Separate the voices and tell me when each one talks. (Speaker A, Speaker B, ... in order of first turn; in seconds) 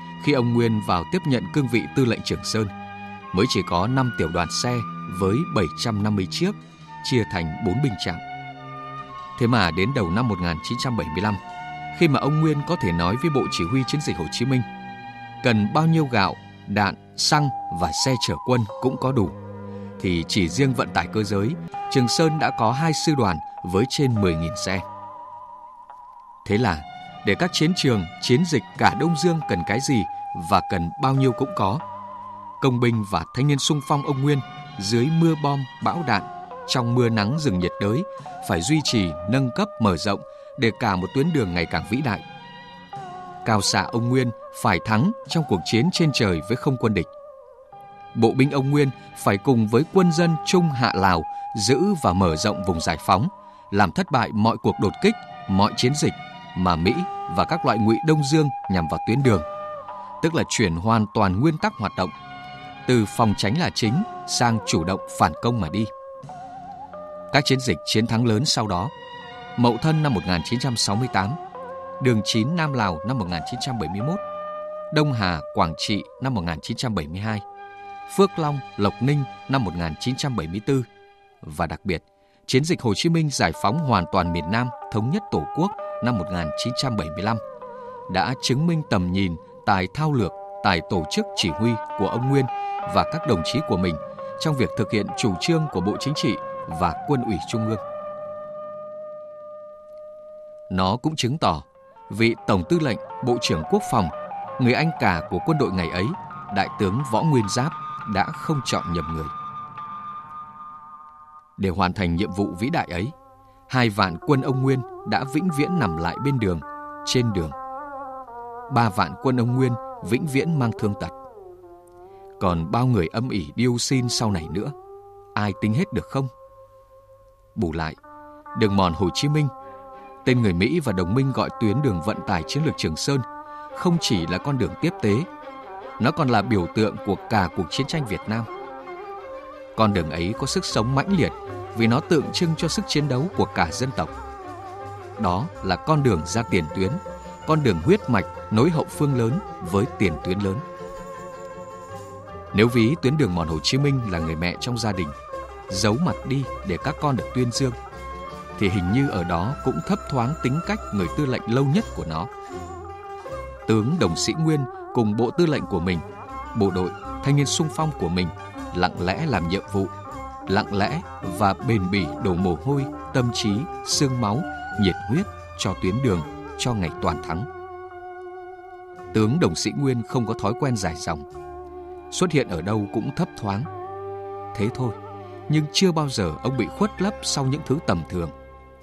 Speaker A: 0.2-2.7, 3.3-8.2, 9.3-11.4, 11.9-14.7, 15.4-19.3, 20.0-24.8, 26.4-31.8, 32.6-42.2, 43.4-47.1, 48.1-59.5, 60.2-62.1, 62.9-65.9, 67.3-68.9, 69.6-71.4, 72.0-74.2, 74.9-77.4, 78.1-80.9, 81.4-87.4, 88.1-97.8, 100.7-109.3, 111.6-113.1, 113.7-117.5, 118.7-121.2, 122.4-124.7, 125.3-126.3, 127.5-128.0, 128.5-129.5, 130.2-135.3, 136.0-138.5, 139.7-144.1, 145.2-150.6, 152.5-155.1, 155.7-157.8, 158.6-162.3, 163.7-169.9, 170.5-177.5, 179.1-181.2, 182.1-183.7, 184.5-185.0, 185.5-188.3